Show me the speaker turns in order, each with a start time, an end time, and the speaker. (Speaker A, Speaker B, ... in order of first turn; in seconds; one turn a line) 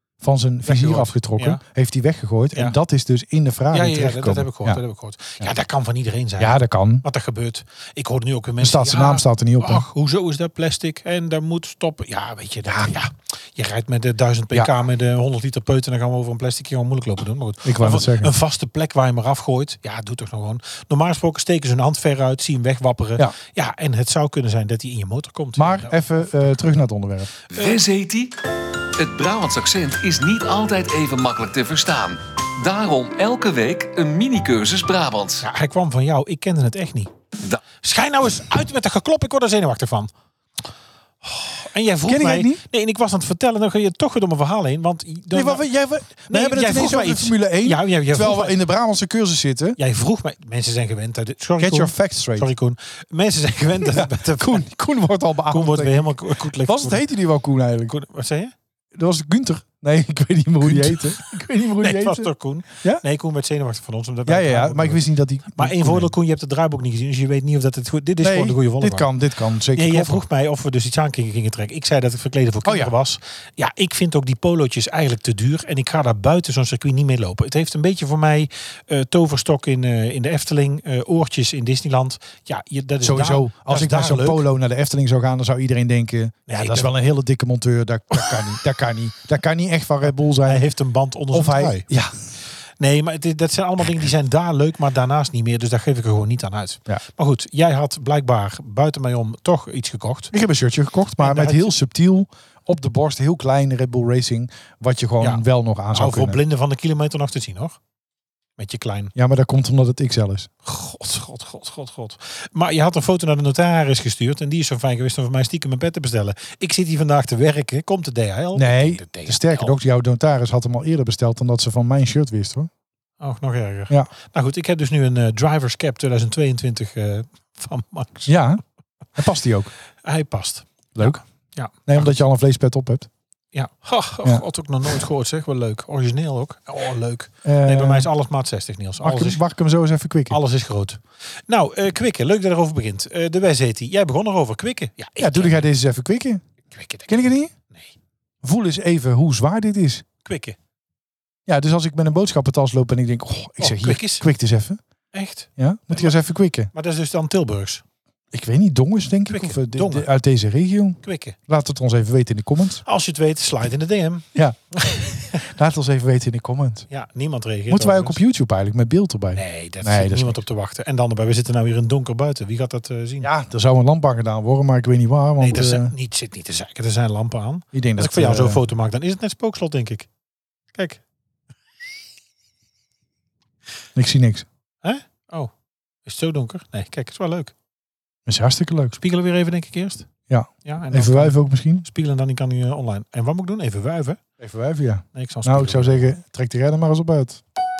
Speaker A: 0.2-4.8
Speaker B: 0.6-1.6
Speaker B: 3.7-26.0
Speaker A: 6.4-7.0
Speaker A: 8.6-9.9
Speaker A: 12.7-12.9
Speaker A: 17.6-18.3
Speaker A: 25.6-27.3
Speaker C: 27.5-28.4
Speaker C: 29.0-35.5
Speaker B: 35.4-37.1
Speaker B: 37.8-40.1
Speaker B: 41.2-45.6
Speaker A: 42.1-42.6
Speaker A: 45.3-49.8
Speaker B: 46.3-48.6
Speaker B: 49.8-54.7
Speaker A: 51.6-52.5
Speaker A: 53.8-58.0
Speaker B: 55.5-57.0
Speaker B: 57.9-58.5
Speaker A: 58.9-63.0
Speaker B: 60.6-69.1
Speaker A: 64.3-66.1
Speaker A: 68.2-70.2
Speaker B: 69.7-84.4
Speaker A: 72.6-72.9
Speaker A: 83.0-90.7
Speaker B: 86.5-86.9
Speaker B: 90.4-91.9
Speaker A: 91.3-92.2
Speaker B: 92.8-100.3
Speaker A: 100.3-106.4
Speaker B: 101.2-101.7
Speaker B: 105.2-107.8
Speaker B: 108.6-109.1
Speaker A: 109.1-110.5
Speaker B: 110.6-119.8
Speaker A: 118.5-122.7
Speaker B: 123.2-128.3
Speaker A: 128.3-128.6
Speaker A: 129.1-129.7
Speaker B: 130.0-132.1
Speaker A: 130.9-131.2
Speaker A: 131.9-133.1
Speaker B: 133.5-139.4
Speaker A: 137.4-138.1
Speaker A: 139.0-140.4
Speaker B: 140.3-145.7
Speaker A: 145.2-146.4
Speaker B: 146.7-147.9
Speaker A: 147.1-147.5
Speaker A: 148.4-150.1
Speaker B: 150.2-150.6
Speaker A: 151.4-154.8
Speaker B: 153.6-154.3
Speaker B: 155.1-156.2
Speaker A: 155.6-156.7
Speaker B: 156.7-157.8
Speaker A: 158.3-162.8
Speaker B: 159.3-160.1
Speaker B: 161.0-161.4
Speaker B: 162.8-165.4
Speaker A: 165.4-166.9
Speaker B: 166.9-168.2
Speaker A: 167.7-170.4
Speaker B: 169.3-173.3
Speaker A: 173.2-175.9
Speaker B: 175.4-180.1
Speaker A: 177.7-178.6
Speaker B: 180.7-181.0
Speaker A: 183.9-184.4
Speaker B: 184.8-185.5
Speaker B: 186.0-187.5
Speaker A: 188.3-189.0
Speaker B: 189.0-190.1
Speaker A: 190.3-191.8
Speaker B: 190.6-194.2
Speaker A: 194.4-197.4
Speaker B: 195.1-196.0